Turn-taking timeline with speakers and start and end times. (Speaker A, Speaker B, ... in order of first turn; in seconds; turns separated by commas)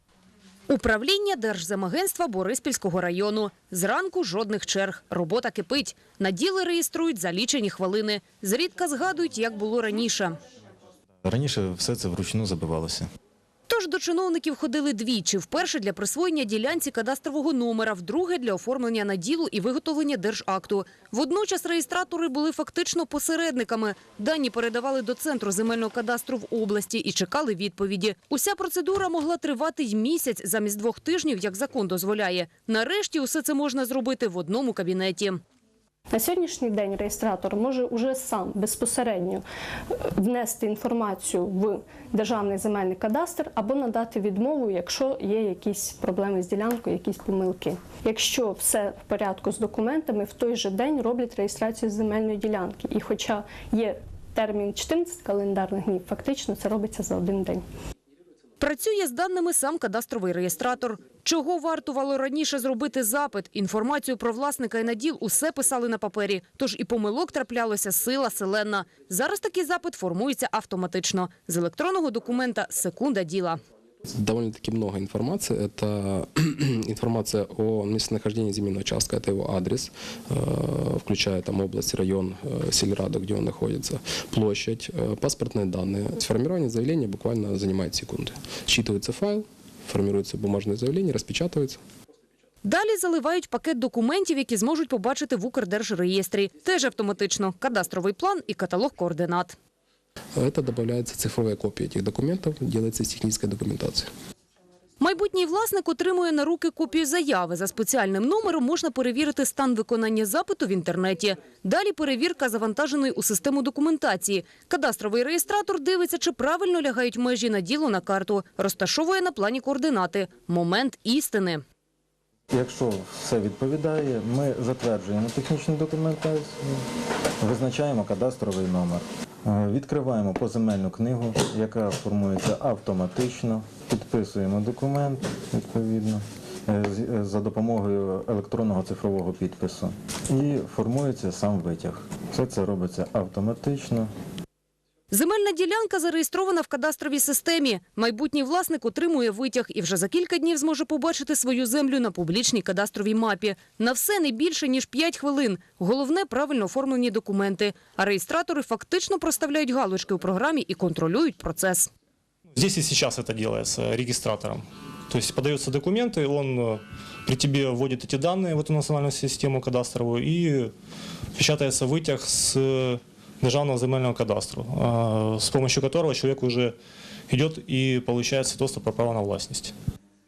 Speaker A: 0.7-10.4, Speaker B: 11.2-13.1, Speaker A: 13.7-35.4, Speaker C: 36.1-39.4, Speaker C: 39.9-57.6, Speaker A: 58.6-73.6, Speaker D: 74.2-91.8, Speaker A: 92.6-99.6, Speaker D: 100.4-104.1, Speaker A: 105.0-121.6, Speaker B: 122.5-126.8, Speaker B: 127.4-144.1, Speaker A: 145.1-161.9, Speaker E: 162.6-170.7, Speaker E: 171.4-176.8, Speaker E: 177.3-179.7